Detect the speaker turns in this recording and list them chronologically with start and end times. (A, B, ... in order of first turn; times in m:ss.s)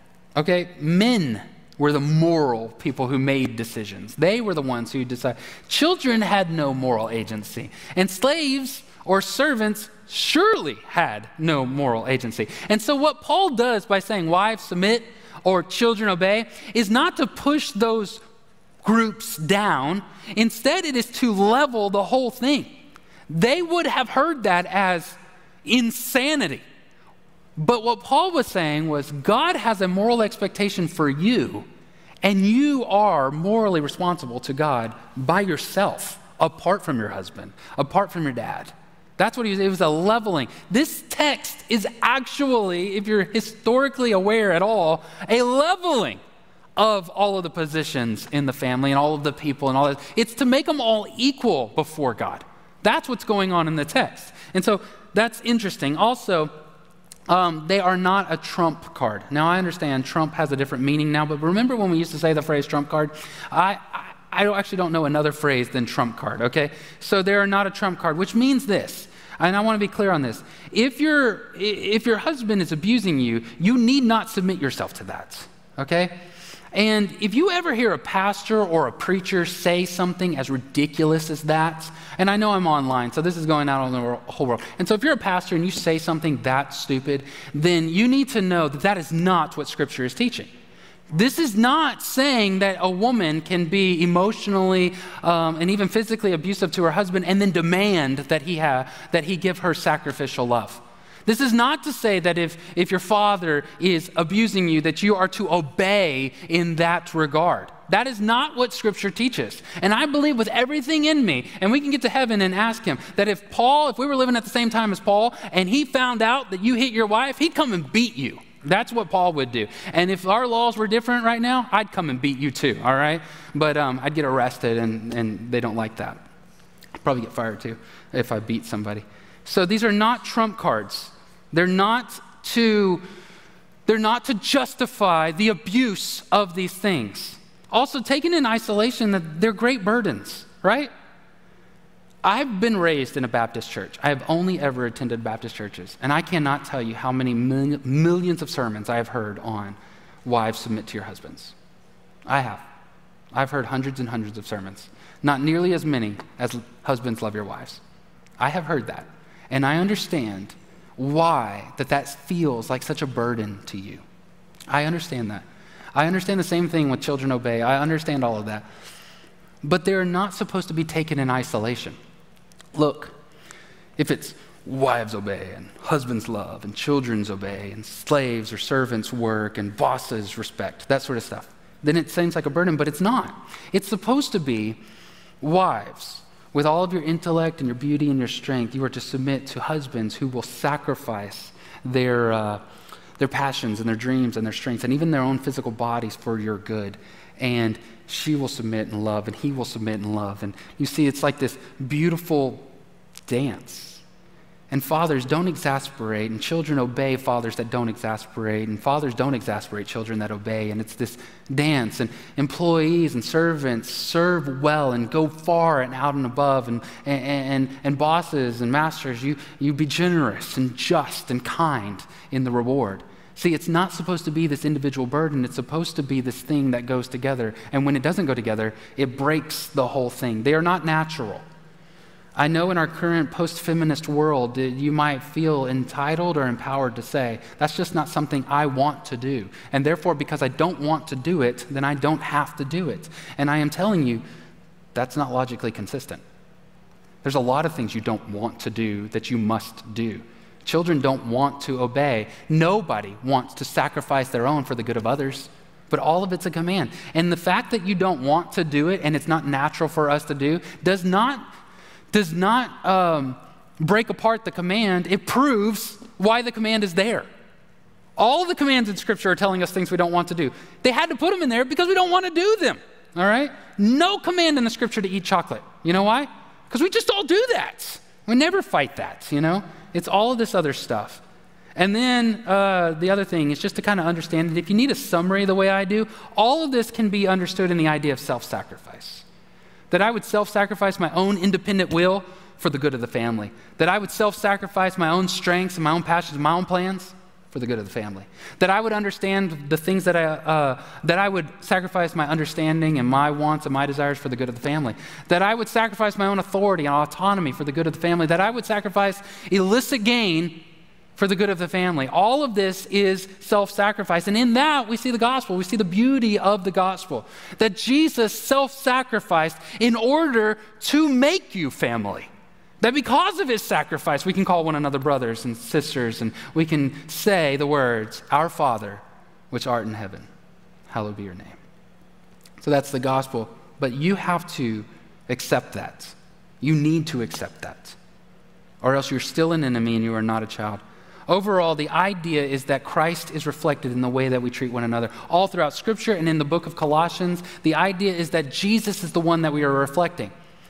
0:00.4-0:18.2 A
0:18.8-0:22.7 A
0:23.3-0:26.6 A
0:27.6-0:31.6 A
0:32.2-0:46.2 A
0:46.8-0:56.5 A
0:57.3-1:16.2 A
1:16.7-1:30.5 A
1:31.1-2:06.2 A
2:07.0-2:13.0 A
2:13.9-2:20.9 A
2:22.2-2:31.6 A
2:32.3-2:32.6 A
2:33.3-2:37.8 A
2:38.4-2:44.0 A
2:44.7-2:48.6 A
2:49.6-2:52.0 A
2:52.7-2:53.2 A
2:54.0-3:04.8 A
3:05.4-3:12.6 A
3:13.2-3:22.7 A
3:23.3-3:24.0 A
3:24.7-3:51.4 A
3:52.4-4:04.2 A
4:04.9-4:06.2 A
4:07.2-4:21.4 A
4:22.1-4:27.3 A
4:28.2-4:41.2 A
4:41.8-4:49.2 A
4:49.9-5:10.6 A
5:11.2-5:22.3 A
5:22.8-5:30.3 A
5:30.9-5:31.6 A
5:32.6-5:38.0 A
5:38.8-5:50.3 A